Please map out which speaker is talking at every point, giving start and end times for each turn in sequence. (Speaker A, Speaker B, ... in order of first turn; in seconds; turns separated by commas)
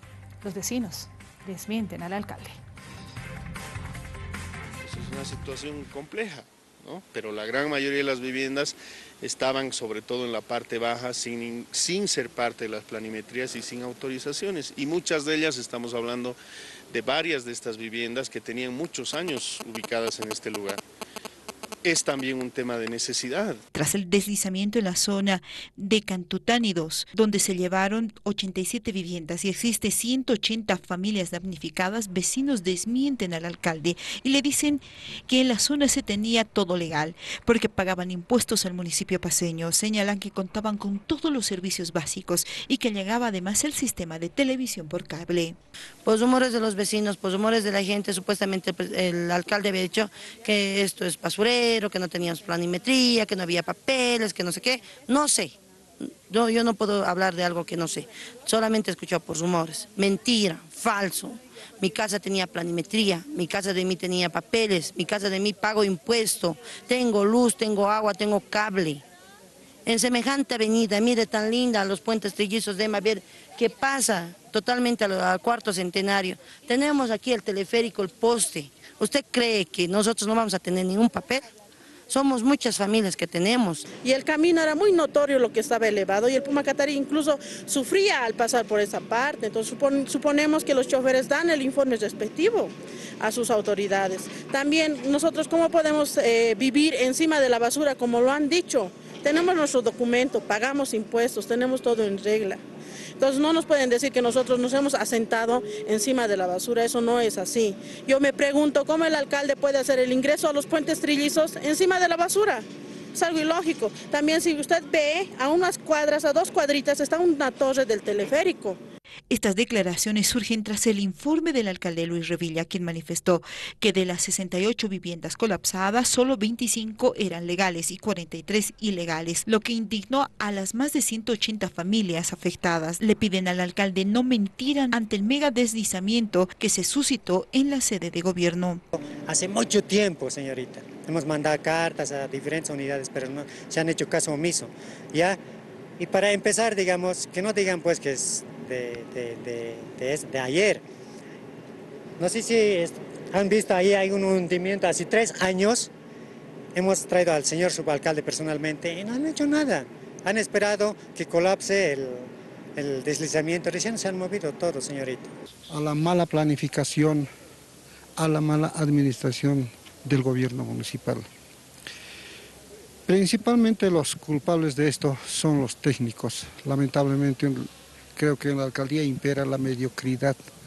Speaker A: 0.4-2.6, Speaker B: 4.8-16.4, Speaker B: 16.9-20.8, Speaker B: 21.8-23.6, Speaker C: 23.7-45.6, Speaker D: 46.0-69.0, Speaker D: 69.9-81.5, Speaker D: 82.1-83.8, Speaker E: 84.0-102.6, Speaker E: 103.2-118.8, Speaker C: 119.3-138.8, Speaker F: 139.0-145.4, Speaker F: 146.0-150.8, Speaker F: 152.2-155.9, Speaker F: 156.7-165.3, Speaker G: 165.7-167.3, Speaker G: 168.2-171.3, Speaker G: 173.1-180.4